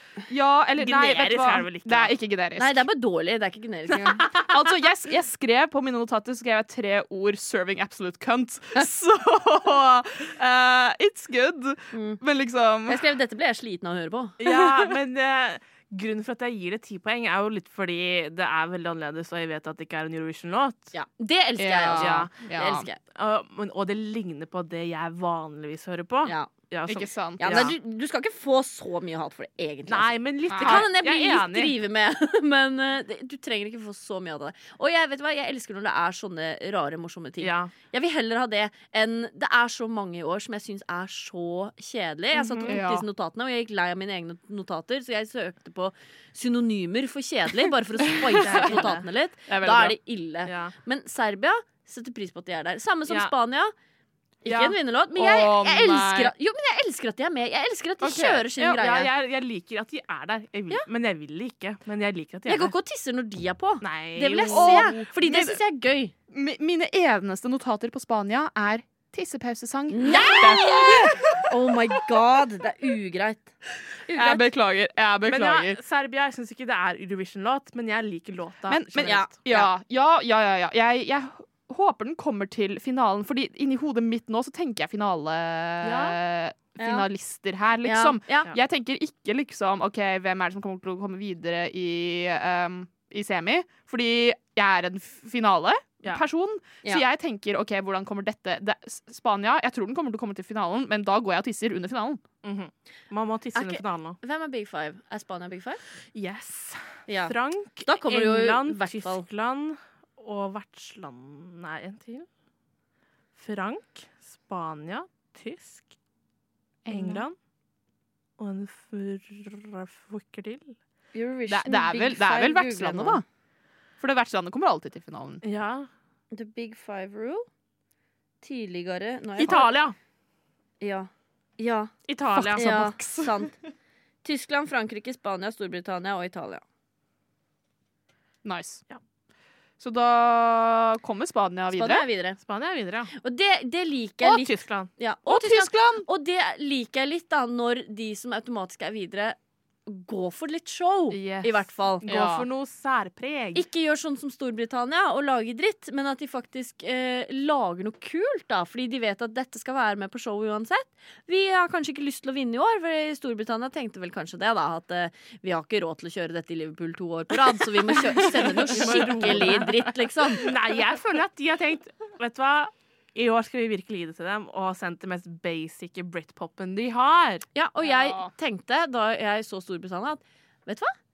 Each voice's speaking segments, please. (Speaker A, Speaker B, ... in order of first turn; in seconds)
Speaker A: 0.3-2.8, 4.3-13.0, 14.4-14.9, 21.6-22.9, 26.9-27.7, 30.5-30.9, 42.7-43.0, 49.5-50.0, 54.5-56.3, 58.0-58.7, 64.5-65.6, 66.3-71.5, 74.1-75.8, 78.7-102.2, 116.8-117.2, 121.5-123.2, 124.0-125.4, 132.3-133.4, 138.4-138.8, 139.8-142.1, 145.3-146.1, 152.1-152.4, 177.9-178.3
Speaker B: 0.8-2.1, 14.4-20.9, 22.0-22.3, 23.1-27.7, 29.9-31.8, 37.4-37.7, 42.3-42.8, 48.4-49.0, 50.5-50.7, 53.1-53.3, 58.6-62.7, 63.8-65.0, 75.2-79.3, 85.8-86.2, 102.4-104.2, 106.1-112.3, 113.3-115.9, 116.9-117.3, 118.4-120.8, 125.4-125.9, 129.4-129.9, 132.1-132.7, 142.4-143.1, 144.2-144.9, 151.1-153.7, 167.9-177.4
Speaker C: 2.6-4.3, 11.9-12.2, 12.9-14.4, 20.9-23.0, 26.2-26.5, 27.4-53.7, 54.4-59.1, 62.5-66.1, 69.9-73.5, 74.1-74.4, 79.0-79.7, 86.8-87.1, 87.8-88.5, 103.5-105.8, 107.1-107.3, 107.8-109.2, 121.1-123.2, 126.3-127.5, 128.4-129.7, 130.8-131.9, 132.5-133.5, 134.2-136.6, 141.7-142.4, 143.1-149.3, 149.9-152.1, 153.5-170.4, 177.5-180.9